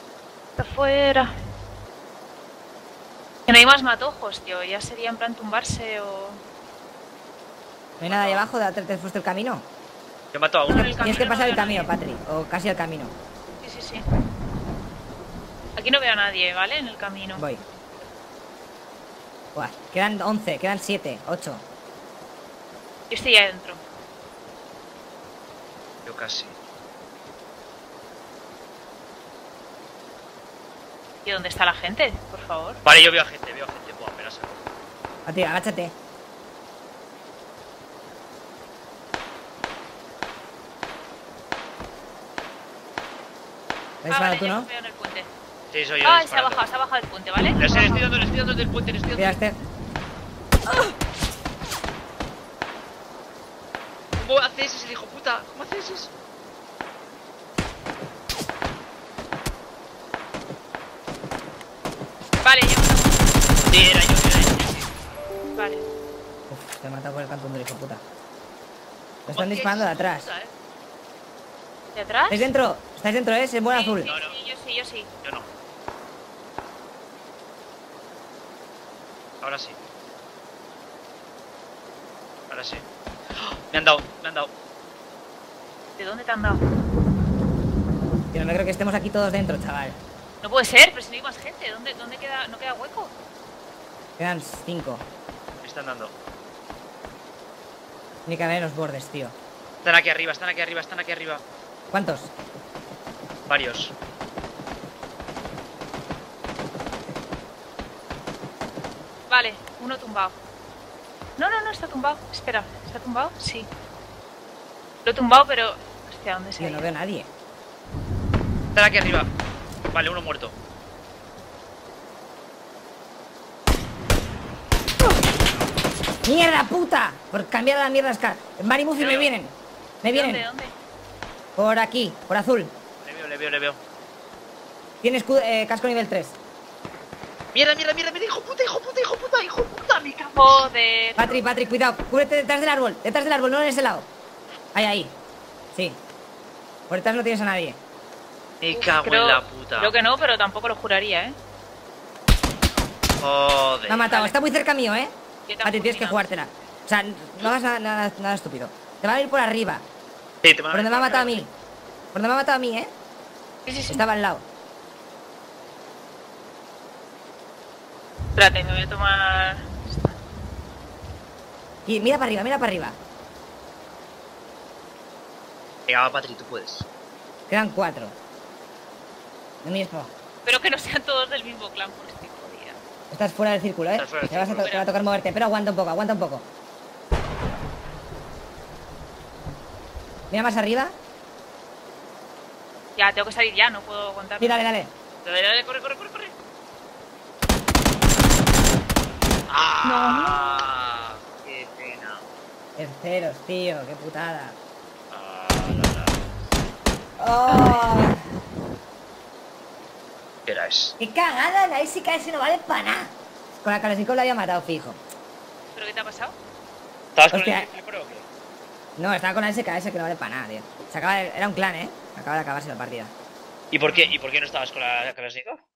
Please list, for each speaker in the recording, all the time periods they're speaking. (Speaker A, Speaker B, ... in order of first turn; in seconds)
Speaker A: 0.6-1.3, 3.5-6.4, 10.7-11.9, 13.6-14.0, 15.8-17.5, 23.1-23.8, 31.2-32.8, 44.1-45.3, 46.0-48.2, 62.4-63.3, 65.5-65.9, 72.0-72.5, 73.7-75.1, 86.0-86.6, 90.4-93.1, 109.3-110.4, 111.4-113.7, 115.0-116.9, 130.1-130.7, 140.4-141.4, 148.7-151.4, 154.1-154.3, 155.5-156.6, 163.7-164.0, 168.3-170.2, 180.4-182.8, 184.6-184.9, 193.0-194.6, 199.8-200.7, 207.5-208.1, 215.7-216.3, 223.9-224.1
Speaker B: 8.0-8.5, 10.3-11.0, 26.1-26.6, 32.8-34.6, 45.7-46.6, 47.6-49.4, 54.2-56.1, 63.7-64.9, 69.3-70.5, 74.1-74.4, 75.2-75.5, 79.4-79.8, 82.5-82.8, 83.4-84.5, 95.6-96.1, 99.8-101.4, 103.5-103.9, 118.8-119.3, 119.9-120.5, 129.0-129.3, 133.0-133.8, 137.5-140.7, 148.6-149.9, 153.2-154.1, 160.4-161.4, 175.9-176.9, 183.9-184.7, 195.2-196.3, 199.5-202.2, 205.1-206.2, 210.5-210.9, 217.2-218.3, 223.7-225.6
Speaker C: 8.0-9.7, 10.7-13.1, 17.4-17.6, 19.6-21.6, 35.3-35.9, 44.0-44.7, 49.1-49.6, 66.5-68.0, 69.3-70.3, 72.3-74.1, 88.3-90.0, 94.2-95.0, 98.3-99.3, 101.9-102.3, 116.6-117.3, 126.2-130.5, 131.6-132.7, 135.0-136.4, 141.2-144.1, 144.7-145.2, 145.7-146.0, 146.9-147.8, 153.9-155.1, 155.6-159.8, 160.7-161.5, 162.1-162.9, 163.9-164.4, 171.9-173.0, 177.5-178.2, 179.6-180.1, 183.1-186.5, 190.3-190.9, 194.4-194.9, 202.8-204.6, 207.2-208.2, 211.0-215.0, 217.3-217.7, 219.0-223.1